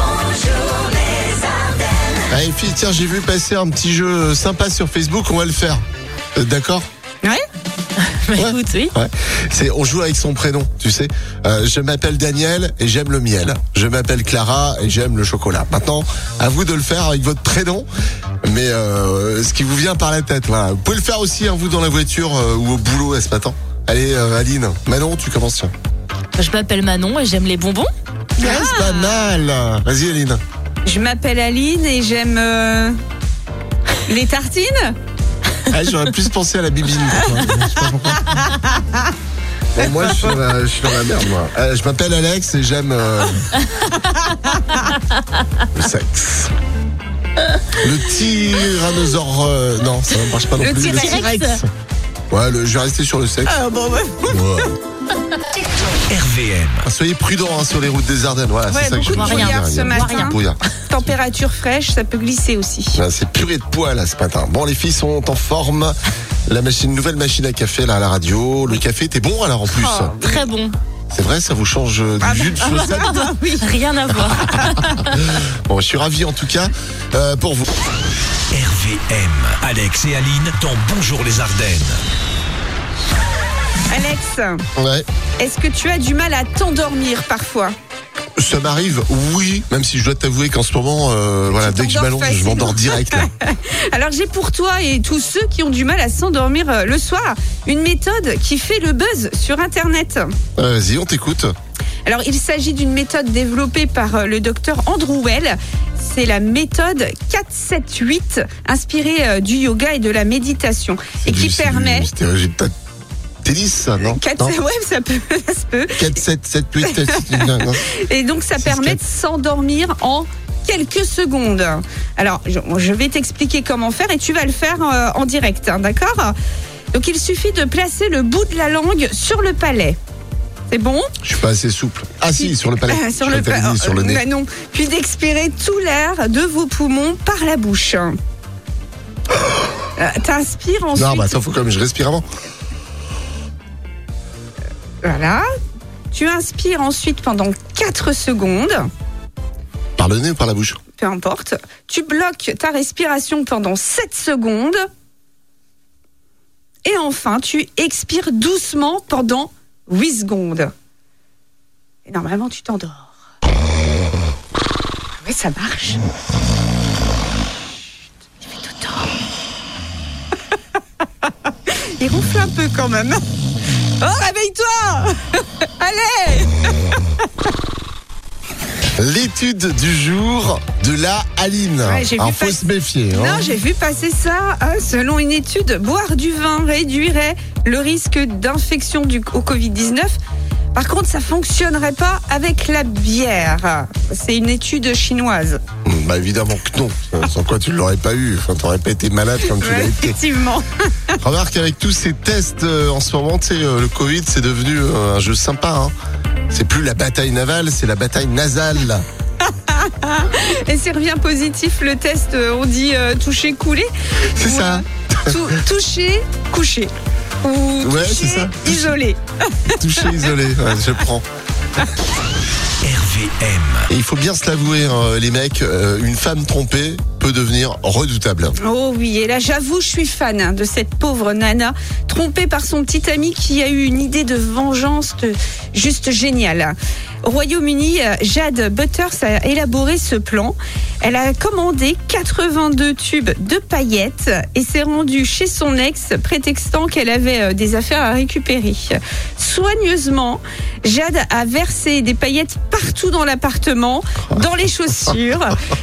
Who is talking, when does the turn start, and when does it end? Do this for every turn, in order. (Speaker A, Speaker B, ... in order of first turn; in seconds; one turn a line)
Speaker A: 2.3-5.8
Speaker A: 6.4-6.9
Speaker B: 8.0-8.9
Speaker A: 8.4-17.9
Speaker A: 18.4-25.7
Speaker B: 26.4-27.9
Speaker A: 28.4-30.4
Speaker C: 28.4-29.2
Speaker C: 30.9-33.0
Speaker C: 34.1-35.0
Speaker A: 35.7-38.3
Speaker C: 37.3-39.0
Speaker A: 39.8-43.5
Speaker C: 44.0-44.8
Speaker A: 45.7-46.5
Speaker A: 47.8-51.5
Speaker C: 50.6-51.6
Speaker B: 50.8-51.6
Speaker A: 52.3-53.6
Speaker C: 53.5-54.5
Speaker A: 54.3-54.8
Speaker D: 56.1-56.9
Speaker A: 56.8-60.6
Speaker C: 58.7-60.4
Speaker B: 59.1-60.4
Speaker C: 60.9-63.0
Speaker A: 63.0-70.2
Speaker C: 69.8-70.5
Speaker B: 70.2-70.8
Speaker A: 71.1-73.1
Speaker C: 72.2-73.7
Speaker B: 72.8-75.2
Speaker A: 75.2-77.7
Speaker D: 78.5-82.0
Speaker C: 83.9-84.6
Speaker A: 84.8-85.1
Speaker C: 85.4-87.7
Speaker A: 88.4-93.3
Speaker C: 91.5-100.3
Speaker A: 100.6-101.5
Speaker C: 102.0-112.1
Speaker A: 111.2-112.7
Speaker A: 113.4-114.6
Speaker C: 114.1-116.1
Speaker A: 116.0-117.8
Speaker C: 116.8-126.3
Speaker A: 118.6-119.0
Speaker C: 126.9-130.0
Speaker C: 130.7-131.1
Speaker A: 131.2-134.2
Speaker C: 132.4-138.2
Speaker C: 140.0-141.4
Speaker A: 140.9-142.2
Speaker C: 145.0-145.4
Speaker C: 146.1-148.9
Speaker A: 150.0-150.8
Speaker C: 151.0-154.8
Speaker C: 156.8-160.7
Speaker C: 162.1-163.1
Speaker C: 165.2-166.0
Speaker C: 168.4-169.1
Speaker C: 172.0-173.2
Speaker C: 174.0-176.7
Speaker A: 179.0-183.5
Speaker C: 181.8-190.2
Speaker C: 190.8-195.6
Speaker A: 195.8-200.2
Speaker C: 199.6-200.7
Speaker A: 201.2-205.9
Speaker A: 206.5-209.1
Speaker C: 209.4-216.9
Speaker A: 214.3-215.5
Speaker C: 217.4-220.1
Speaker A: 217.8-218.9
Speaker A: 219.8-221.2
Speaker D: 222.8-223.9
Speaker A: 223.9-228.6
Speaker C: 228.6-255.6